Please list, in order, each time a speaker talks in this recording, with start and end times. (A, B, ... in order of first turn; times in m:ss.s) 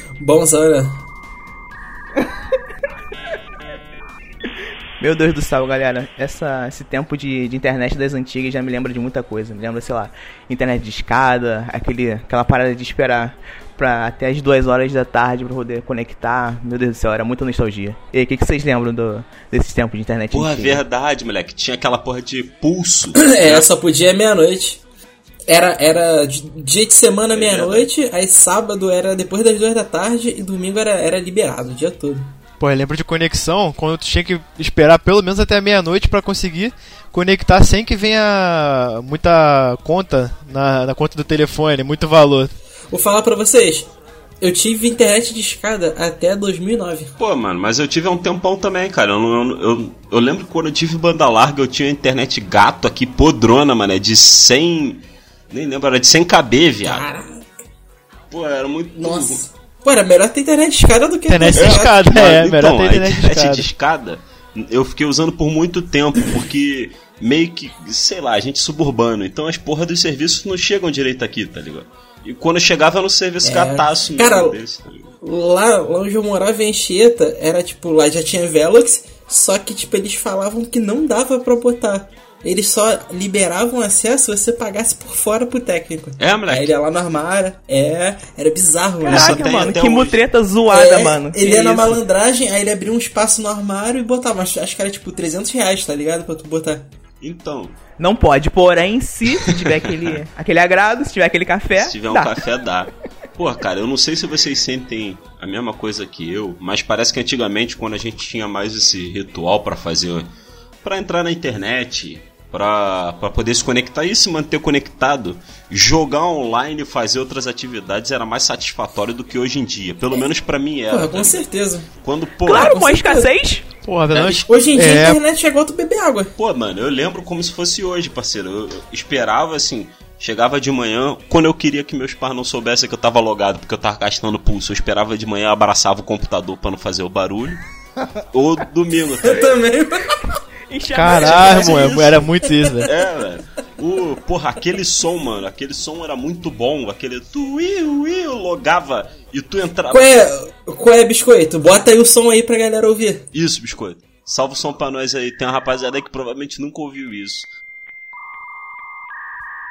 0:00.2-0:01.0 A
0:05.0-0:20.8 B
0:20.3-0:23.7 C
0:23.1-0:24.8 A
0:25.5-0:32.3 A
0:27.3-0:27.9 C
0:32.6-0:42.5 D
0:42.9-0:43.9 A
0:44.4-0:47.1 A
0:47.2-0:57.1 C
0:56.8-0:57.5 A
0:58.3-0:59.4 C
0:59.0-1:01.9 A
1:01.3-1:03.7 D
1:01.5-1:15.1 C
1:13.4-1:14.6 A
1:15.2-1:29.4 A
1:26.2-1:26.7 C
1:29.0-1:32.0 B
1:29.1-1:30.2 C
1:30.7-1:36.9 A
1:37.2-1:37.7 C
1:38.0-1:42.3 B
1:41.8-1:50.3 C
1:50.8-2:01.5 C
2:00.9-2:01.9 A
2:02.0-2:02.9 C
2:02.4-2:03.7 B
2:02.6-2:03.3 A
2:03.8-2:05.2 D
2:04.1-2:04.5 C
2:04.4-2:06.3 A
2:06.4-2:17.6 C
2:18.3-2:19.6 C
2:19.2-2:20.2 A
2:20.7-2:22.0 B
2:20.9-2:22.9 D
2:21.0-2:22.1 C
2:21.3-2:22.7 A
2:22.8-2:30.2 C
2:29.9-2:33.2 A
2:33.3-2:37.5 C